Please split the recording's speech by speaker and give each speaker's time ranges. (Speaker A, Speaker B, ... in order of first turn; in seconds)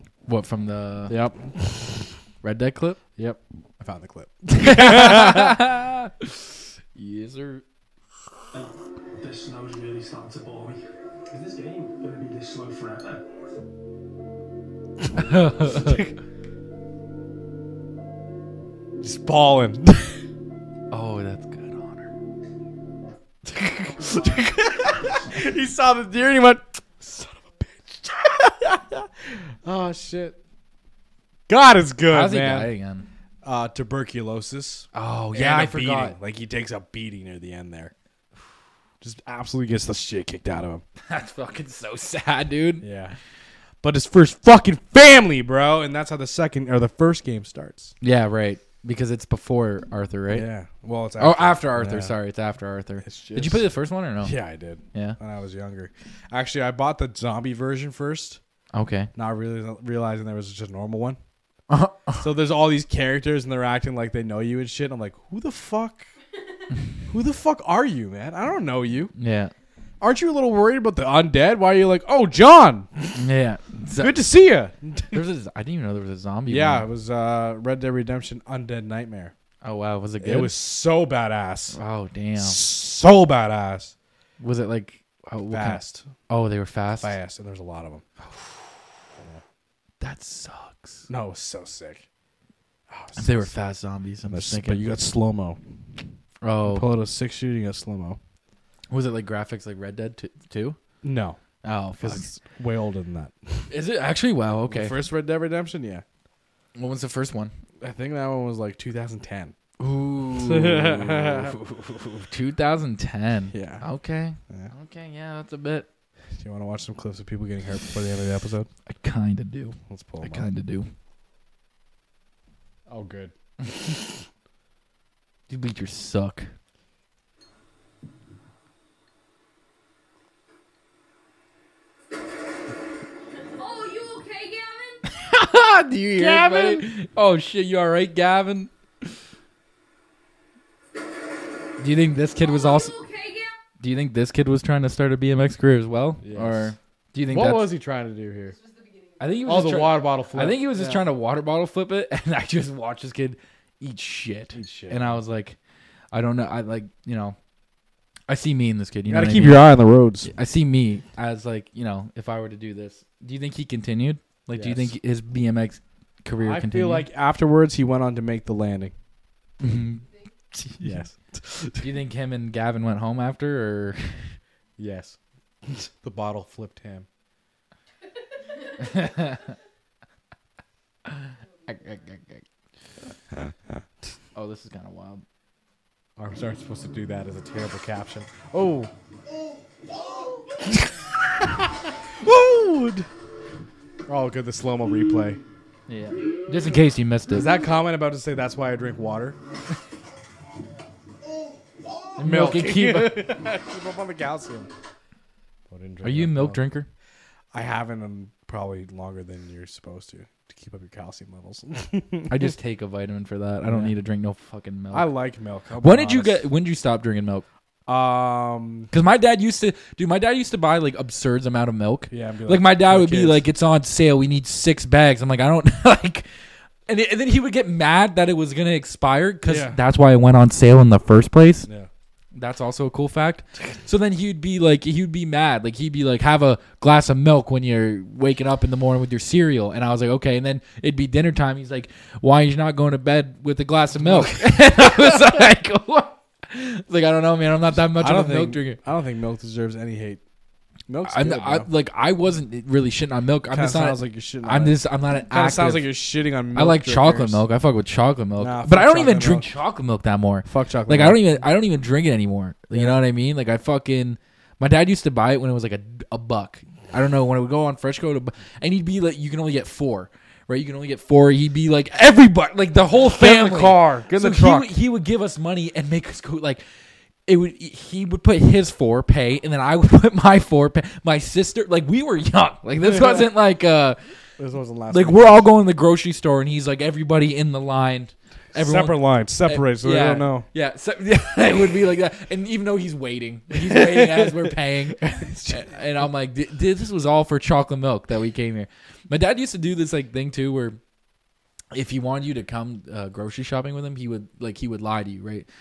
Speaker A: 0.2-1.2, 2.4-3.0, 4.5-7.6, 15.1-16.1, 20.9-22.1, 32.1-33.1, 34.9-36.1, 41.1-42.9, 48.0-50.5, 51.2-54.3, 58.7-59.1, 61.7-62.2, 69.2-69.5, 73.1-74.2, 75.1-76.8, 79.6-80.5, 81.7-82.6, 84.4-87.2, 90.0-91.1, 93.2-94.9, 96.4-96.9, 98.9-100.8, 101.6-102.2, 103.7-105.0, 106.7-107.5, 109.8-115.9, 118.9-120.9, 125.5-126.5, 135.1-138.7, 141.8-142.9, 143.8-147.7, 149.2-155.6, 156.1-157.3, 158.3-159.7, 160.2-167.1, 169.6-170.0, 170.5-171.0, 171.8-174.4, 178.8-179.5, 181.1-182.4, 184.3-185.2, 195.9-197.5, 202.2-203.3, 206.0-206.9, 212.3-215.1, 215.8-217.4, 218.9-226.3, 226.9-231.7, 232.3-248.8, 251.0-255.9, 256.5-276.6, 277.2-284.0, 284.9-300.8, 301.7-305.5
Speaker B: 1.1-2.1, 3.2-5.6, 19.0-20.2, 23.5-30.4, 31.5-32.7, 33.4-37.9, 39.0-40.8, 42.8-43.2, 43.8-47.9, 50.3-52.1, 53.0-53.6, 54.2-58.4, 59.1-61.2, 62.2-66.1, 67.1-69.1, 70.0-73.1, 74.0-75.2, 76.5-79.3, 80.2-81.8, 82.3-83.9, 85.5-86.1, 87.0-88.0, 91.1-92.0, 92.9-93.5, 94.3-95.6, 96.7-98.2, 101.0-101.4, 102.0-103.7, 104.7-106.0, 107.8-109.5, 110.4-111.5, 113.5-113.8, 116.3-118.7, 119.9-120.5, 122.9-123.3, 136.1-136.9, 146.2-146.7, 147.3-148.6, 149.4-151.0, 154.5-155.2, 159.1-160.3, 164.5-164.9, 166.4-168.9, 170.8-171.9, 174.8-177.1, 186.2-188.9, 190.6-193.1, 194.1-195.4, 197.3-199.4, 202.2-204.7, 205.7-206.6, 207.5-212.5, 213.6-213.9, 214.9-216.4, 217.9-218.9, 222.1-223.4, 229.4-229.8, 244.0-244.4, 247.9-250.2, 250.9-251.7, 253.5-257.4, 258.4-259.5, 260.4-261.2, 262.7-263.0, 273.1-274.7, 282.8-283.3, 284.4-285.5, 288.5-290.4, 293.6-294.4, 295.0-295.7
Speaker C: 8.5-13.3
Speaker D: 133.4-135.0, 142.4-143.6, 148.5-149.7, 170.1-170.3, 178.4-179.5, 181.6-182.0